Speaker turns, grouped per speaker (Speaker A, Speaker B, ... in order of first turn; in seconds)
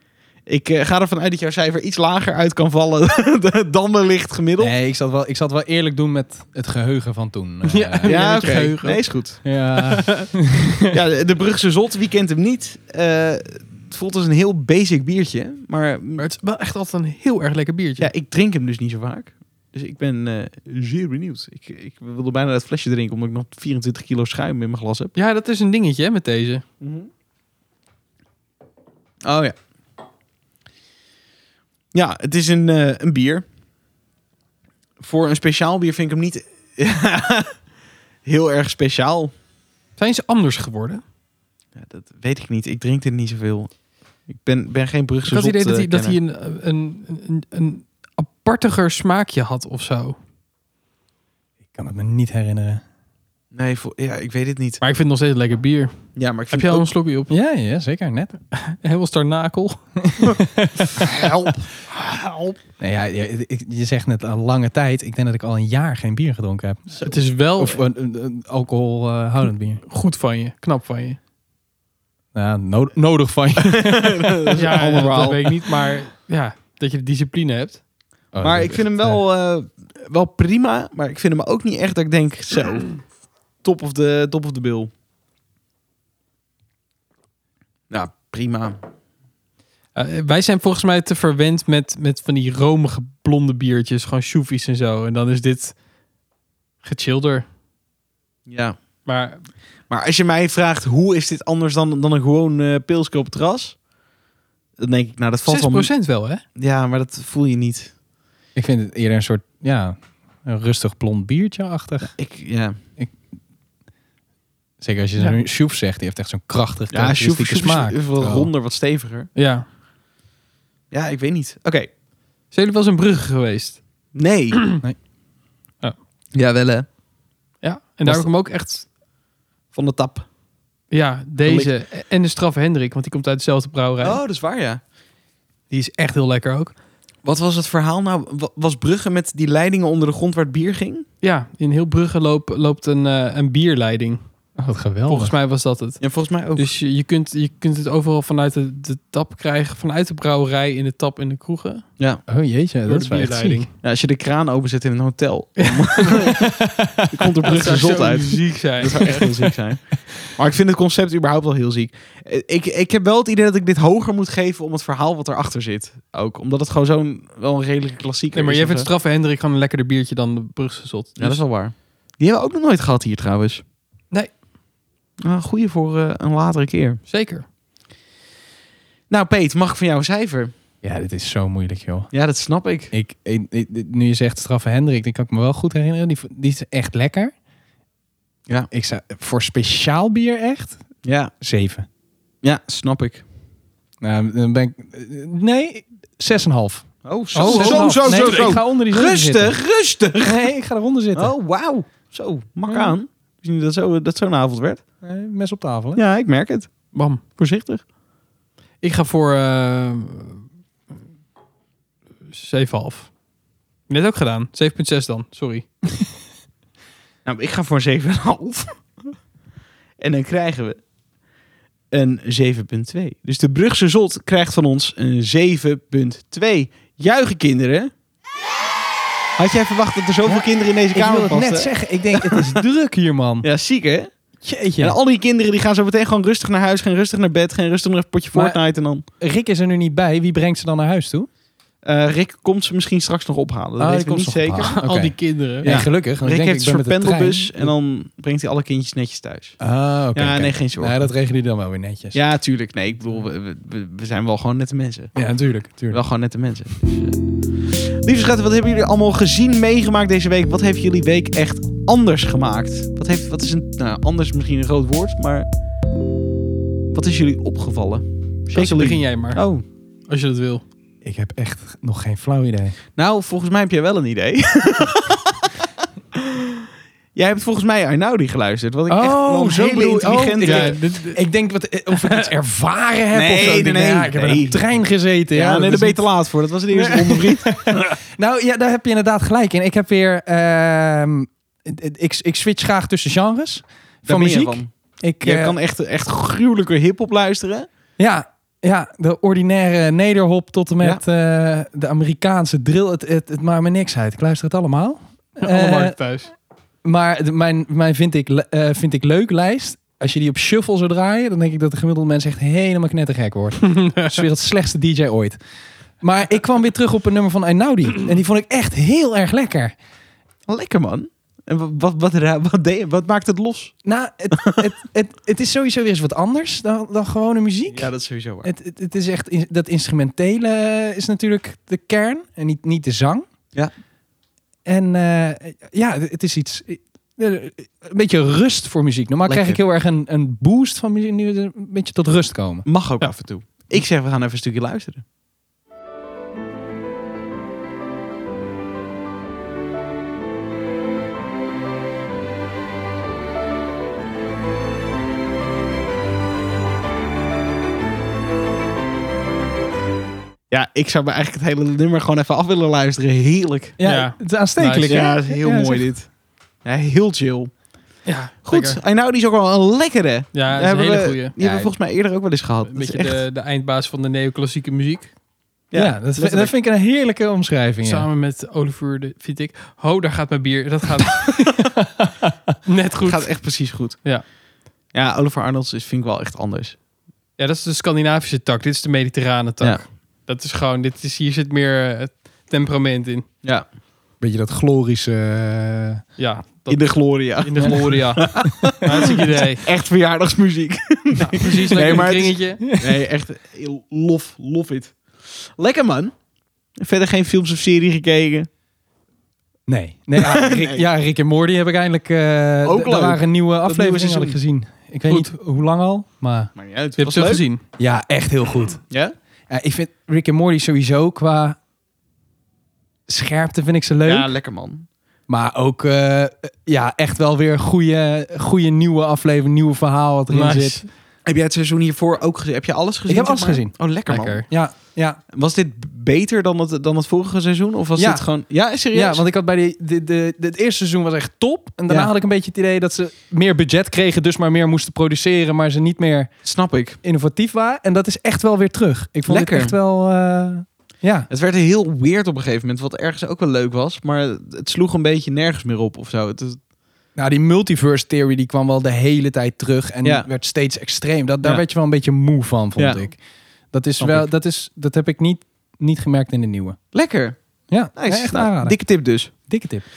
Speaker A: 0.5-4.7, 8.0-9.4, 10.9-16.2, 18.0-25.1, 26.8-27.1, 29.2-29.5, 31.9-33.5, 35.0-37.6, 38.2-39.3, 41.8-43.7, 44.3-46.2, 53.5-54.8, 56.1-56.9, 61.0-62.6, 73.7-75.5, 78.4-83.0, 83.6-84.9, 87.9-88.8, 98.5-98.8, 99.9-103.8, 104.8-105.9, 106.5-107.9, 112.2-112.8, 116.9-119.3, 120.9-121.9, 124.1-124.7, 126.3-126.9, 129.7-130.2, 131.4-131.7, 134.0-134.8, 137.2-141.0, 146.0-146.7, 153.8-156.5, 157.1-168.9, 171.2-173.6, 175.2-177.0, 179.1-180.5, 182.1-182.9, 191.0-191.3, 192.4-193.2, 197.0-200.4, 201.1-204.8, 205.9-207.8, 217.2-218.8, 220.0-220.8, 221.9-227.9, 229.4-232.6, 233.4-234.1, 234.8-239.0, 241.8-244.8, 245.6-249.6, 250.1-251.1, 252.1-255.1, 255.9-265.5, 266.9-269.6, 272.9-275.5, 277.1-280.8, 283.1-284.6, 285.3-287.8, 294.1-294.7, 295.2-297.7, 320.5-323.7, 327.7-328.5, 339.2-339.6, 342.6-345.0, 360.5-363.8, 364.9-366.1, 366.6-367.5, 368.4-373.2, 375.7-376.5, 383.0-384.0, 384.9-386.8, 396.7-406.1, 406.8-408.5, 410.2-410.9, 412.6-414.4, 416.5-417.4, 424.0-424.9, 431.2-434.5, 435.3-439.2, 446.4-447.0, 449.3-449.8, 451.3-456.6, 462.8-463.1, 464.0-464.3, 466.9-467.4, 467.9-469.3
Speaker B: 4.6-8.1, 9.4-10.9, 51.7-52.8, 57.3-58.4, 60.0-61.1, 62.8-69.8, 72.3-74.5, 78.3-79.2, 108.5-112.2, 114.8-118.5, 144.6-145.3, 152.3-153.7, 156.4-157.3, 180.8-182.1, 182.9-187.3, 188.7-190.8, 191.4-191.9, 194.0-199.6, 200.2-201.3, 202.7-202.9, 205.0-206.0, 230.2-233.5, 234.4-235.0, 238.3-238.6, 239.2-241.3, 243.8-247.7, 249.6-252.2, 255.1-256.0, 271.0-272.8, 278.9-286.1, 286.7-295.5, 298.0-306.0, 306.8-315.4, 316.0-319.7, 323.8-327.9, 328.4-333.2, 334.6-342.7, 363.8-365.9, 371.4-371.7, 375.7-378.1, 381.6-382.3, 394.2-396.0, 402.6-402.9, 409.7-416.5, 417.8-418.8, 419.5-421.6, 423.1-424.3, 425.3-430.8, 433.1-435.2, 437.9-438.3, 438.9-446.3, 447.0-451.3, 457.1-466.8, 467.7-469.8
Speaker C: 7.6-9.1, 9.8-10.1, 16.2-18.1, 25.1-26.6, 40.0-41.0, 45.2-50.2, 54.8-57.3, 58.5-60.3, 67.0-67.8, 69.8-71.2, 74.5-77.8, 89.9-95.7, 96.8-97.4, 99.0-99.4, 105.5-106.4, 119.3-119.7, 122.5-123.8, 124.5-124.8, 127.6-128.8, 130.9-134.2, 135.7-136.7, 141.2-144.2, 145.1-151.9, 152.8-153.7, 155.6-156.3, 157.4-159.5, 168.3-171.4, 177.1-177.4, 197.3-198.5, 206.9-207.2, 208.8-210.4, 212.3-213.1, 213.9-215.7, 244.6-245.7, 268.5-269.4, 270.1-270.6, 280.4-281.2, 281.9-282.3, 305.4-306.3, 313.6-314.2, 363.8-365.0, 368.0-368.8, 370.3-371.3, 372.7-375.1, 377.8-381.6, 382.6-384.2, 387.4-393.2, 396.2-399.6, 401.2-402.6, 417.0-417.6, 430.3-430.9, 434.1-434.4